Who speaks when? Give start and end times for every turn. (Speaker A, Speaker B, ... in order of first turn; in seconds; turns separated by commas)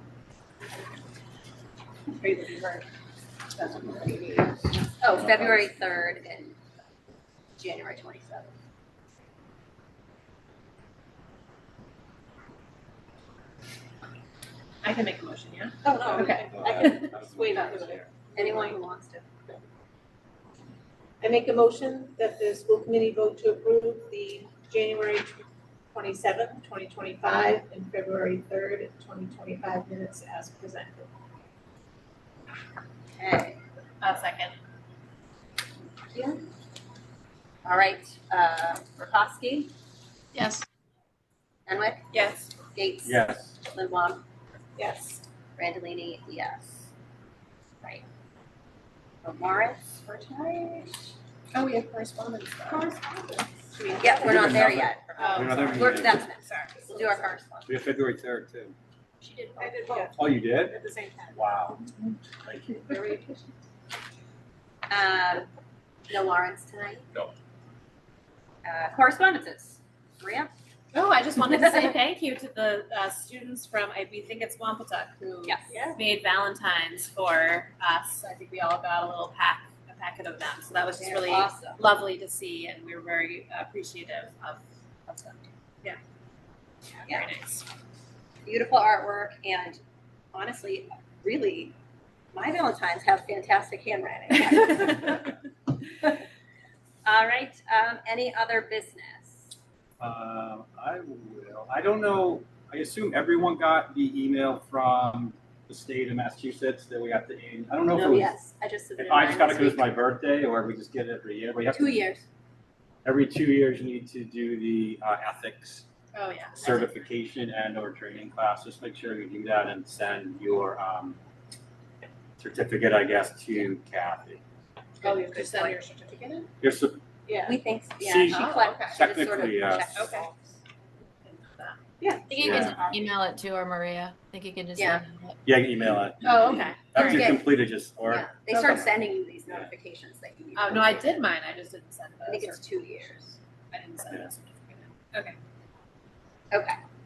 Speaker A: 2.1-2.9, Speaker A: 3.5-4.4, Speaker B: 3.9-4.5, Speaker C: 5.0-6.6, Speaker B: 5.1-5.6, Speaker C: 7.6-8.5, Speaker A: 14.8-17.1, Speaker C: 15.8-16.4, Speaker D: 16.1-18.8, Speaker B: 16.5-18.1, Speaker C: 18.4-19.2, Speaker D: 21.2-25.4, Speaker D: 25.9-31.1, Speaker C: 33.2-33.6, Speaker A: 34.0-34.5, Speaker C: 36.1-36.4, Speaker C: 37.6-39.7, Speaker E: 40.4-40.6, Speaker C: 41.7-42.0, Speaker A: 42.1-42.5, Speaker C: 42.7-44.2, Speaker B: 43.0-43.6, Speaker D: 44.8-45.2, Speaker C: 45.6-46.9, Speaker C: 49.2-51.1, Speaker A: 51.5-52.8, Speaker D: 52.7-54.5, Speaker C: 54.0-57.7, Speaker B: 54.2-56.3, Speaker A: 55.2-56.7, Speaker D: 56.9-57.3, Speaker B: 57.6-58.8, Speaker C: 59.2-60.1, Speaker D: 59.6-61.5, Speaker B: 60.1-60.8, Speaker B: 61.3-61.8, Speaker B: 62.4-62.8, Speaker C: 62.9-63.5, Speaker C: 64.9-65.5, Speaker C: 66.1-67.1, Speaker C: 68.7-70.5, Speaker A: 70.9-86.0, Speaker C: 75.5-75.8, Speaker C: 81.0-81.8, Speaker C: 87.0-87.3, Speaker A: 87.1-87.7, Speaker C: 88.5-89.8, Speaker C: 90.3-91.8, Speaker C: 92.3-95.3, Speaker C: 97.0-99.6, Speaker B: 100.0-108.4, Speaker C: 107.9-109.9, Speaker B: 109.0-112.2, Speaker C: 111.7-112.2, Speaker B: 113.0-115.9, Speaker A: 116.1-117.0, Speaker B: 116.5-121.2, Speaker B: 122.4-124.4, Speaker A: 125.0-126.5, Speaker D: 125.1-125.4, Speaker C: 125.1-125.8, Speaker B: 126.6-127.0, Speaker D: 127.3-127.6, Speaker C: 127.4-130.6, Speaker B: 128.0-129.9, Speaker A: 128.3-129.0, Speaker A: 129.9-130.3, Speaker A: 131.2-131.8, Speaker D: 132.0-133.0, Speaker E: 132.3-135.4, Speaker B: 132.4-132.9, Speaker A: 134.8-135.0, Speaker B: 135.4-138.3, Speaker A: 136.2-137.4, Speaker D: 137.0-137.4, Speaker C: 138.1-141.2, Speaker A: 138.1-138.8, Speaker A: 140.6-145.4, Speaker C: 142.3-143.2, Speaker C: 146.5-146.8